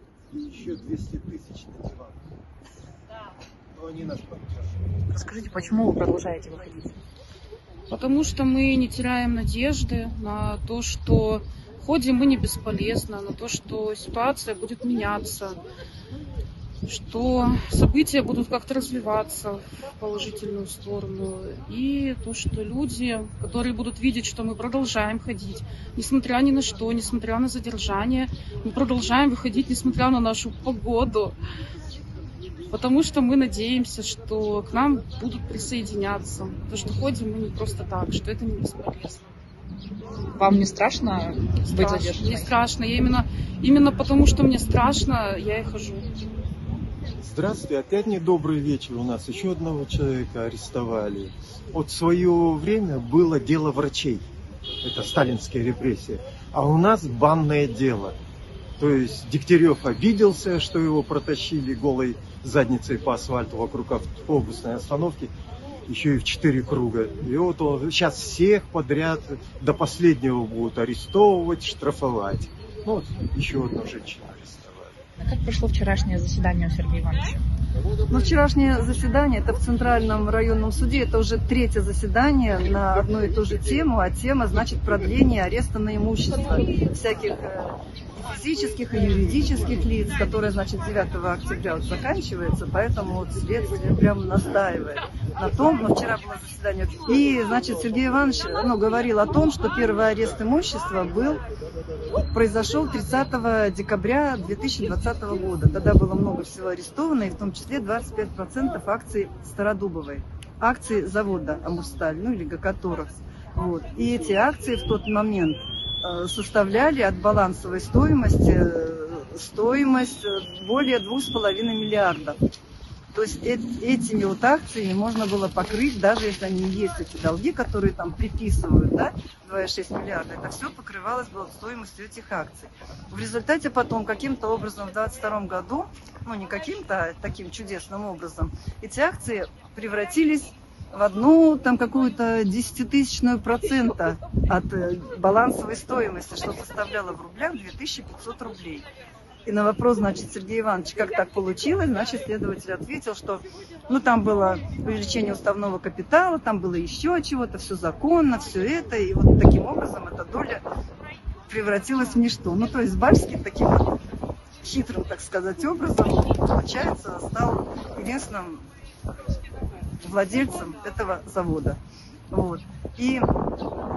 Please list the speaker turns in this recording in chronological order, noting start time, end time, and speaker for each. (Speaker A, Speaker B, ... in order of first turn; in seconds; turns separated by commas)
Speaker A: 0.3-2.2, Speaker A: 3.7-4.8, Speaker B: 5.1-6.9, Speaker C: 7.9-15.6, Speaker C: 16.9-31.4, Speaker C: 32.7-39.3, Speaker B: 40.4-42.5, Speaker C: 41.6-46.1, Speaker A: 47.2-54.2, Speaker A: 54.8-58.2, Speaker A: 58.8-65.3, Speaker A: 65.9-75.0, Speaker B: 75.2-77.4, Speaker D: 78.1-101.4, Speaker D: 102.1-122.4, Speaker D: 123.1-148.9, Speaker D: 149.5-160.6, Speaker D: 161.5-164.0, Speaker D: 164.6-168.7, Speaker D: 170.0-171.8, Speaker D: 172.3-173.3